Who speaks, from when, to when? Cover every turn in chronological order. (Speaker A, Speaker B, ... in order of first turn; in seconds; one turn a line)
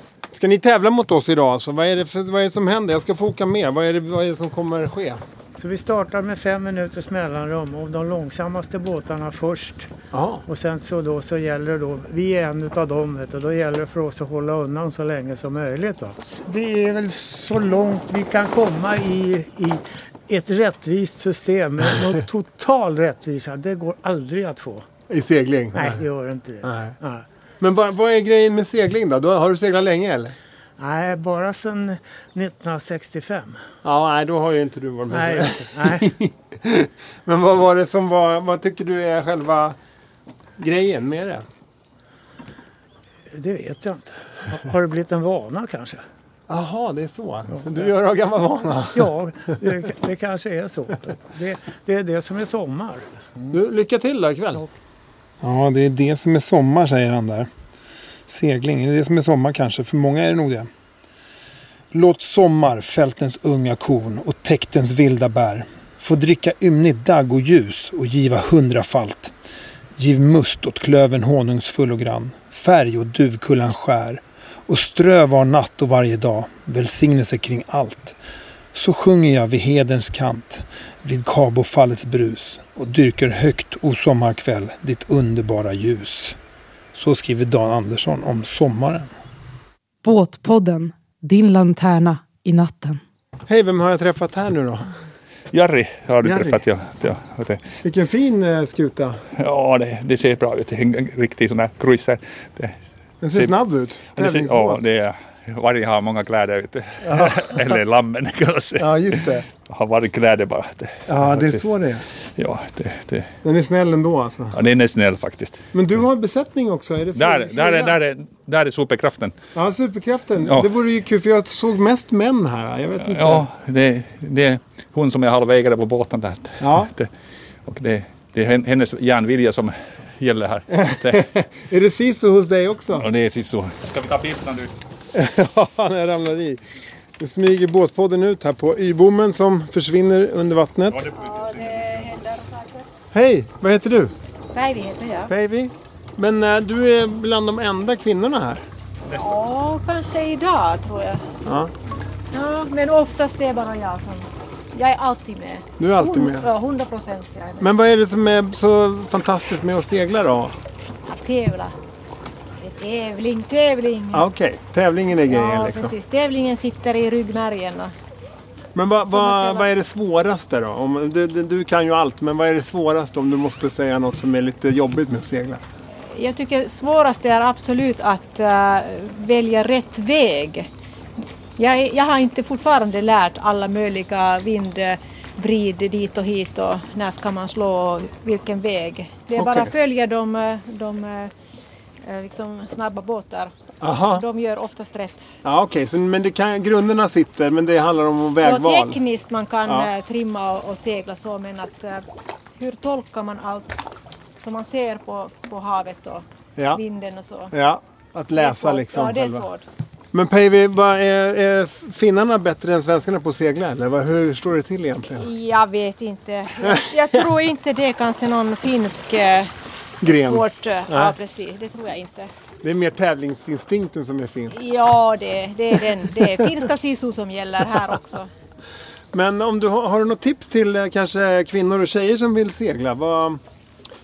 Speaker A: 0.3-5.2
Speaker B: 5.6-9.9
Speaker A: 10.1-10.4
Speaker B: 10.5-24.9
Speaker A: 25.1-26.0
Speaker B: 25.7-27.2
Speaker A: 26.6-26.9
Speaker A: 27.6-30.4
Speaker B: 30.8-33.6
Speaker A: 33.8-39.8
Speaker B: 35.1-36.1
Speaker A: 40.6-41.4
Speaker B: 43.3-46.0
Speaker A: 46.5-49.1
Speaker B: 48.9-53.0
Speaker A: 53.5-54.6
Speaker A: 55.4-57.5
Speaker A: 58.3-60.7
Speaker A: 61.9-69.3
Speaker A: 70.0-78.2
Speaker A: 78.7-86.3
Speaker A: 86.9-89.1
Speaker C: 90.0-93.0
Speaker A: 93.5-94.8
Speaker D: 95.5-97.6
Speaker A: 96.2-96.6
Speaker A: 97.8-99.2
Speaker D: 99.4-102.8
Speaker A: 103.2-104.8
Speaker D: 104.2-111.6
Speaker A: 107.1-107.8
Speaker A: 108.8-109.5
Speaker A: 111.1-112.0
Speaker D: 112.4-113.3
Speaker A: 113.4-114.5
Speaker D: 114.5-115.6
Speaker A: 115.7-118.0
Speaker D: 117.1-119.3
Speaker A: 119.5-123.5
Speaker D: 120.4-120.7
Speaker D: 123.0-127.1
Speaker A: 126.6-126.9
Speaker D: 127.7-131.2
Speaker A: 130.7-133.1
Speaker D: 132.9-134.7
Speaker A: 135.1-136.6
Speaker A: 137.2-141.1
Speaker D: 140.9-141.8
Speaker E: 141.1-142.9
Speaker A: 143.1-144.1
Speaker E: 144.5-145.3
Speaker A: 145.3-148.6
Speaker E: 149.1-151.3
Speaker A: 151.4-151.7
Speaker E: 152.3-157.7
Speaker A: 155.8-156.5
Speaker A: 157.6-160.6
Speaker E: 161.1-161.7
Speaker E: 162.6-164.3
Speaker A: 164.1-165.9
Speaker E: 165.3-167.9
Speaker A: 168.7-175.6
Speaker E: 169.1-169.7
Speaker E: 176.1-180.7
Speaker E: 181.6-191.3
Speaker A: 189.4-189.7
Speaker E: 192.0-193.5
Speaker A: 193.8-194.2
Speaker E: 194.1-195.3
Speaker A: 195.4-199.0
Speaker E: 198.4-202.0
Speaker E: 202.6-203.8
Speaker E: 204.4-207.5
Speaker A: 207.5-209.4
Speaker E: 208.3-209.6
Speaker A: 210.1-215.3
Speaker E: 215.1-219.5
Speaker A: 220.0-221.1
Speaker E: 220.0-222.3
Speaker A: 222.6-224.6
Speaker E: 224.5-228.3
Speaker A: 229.1-233.4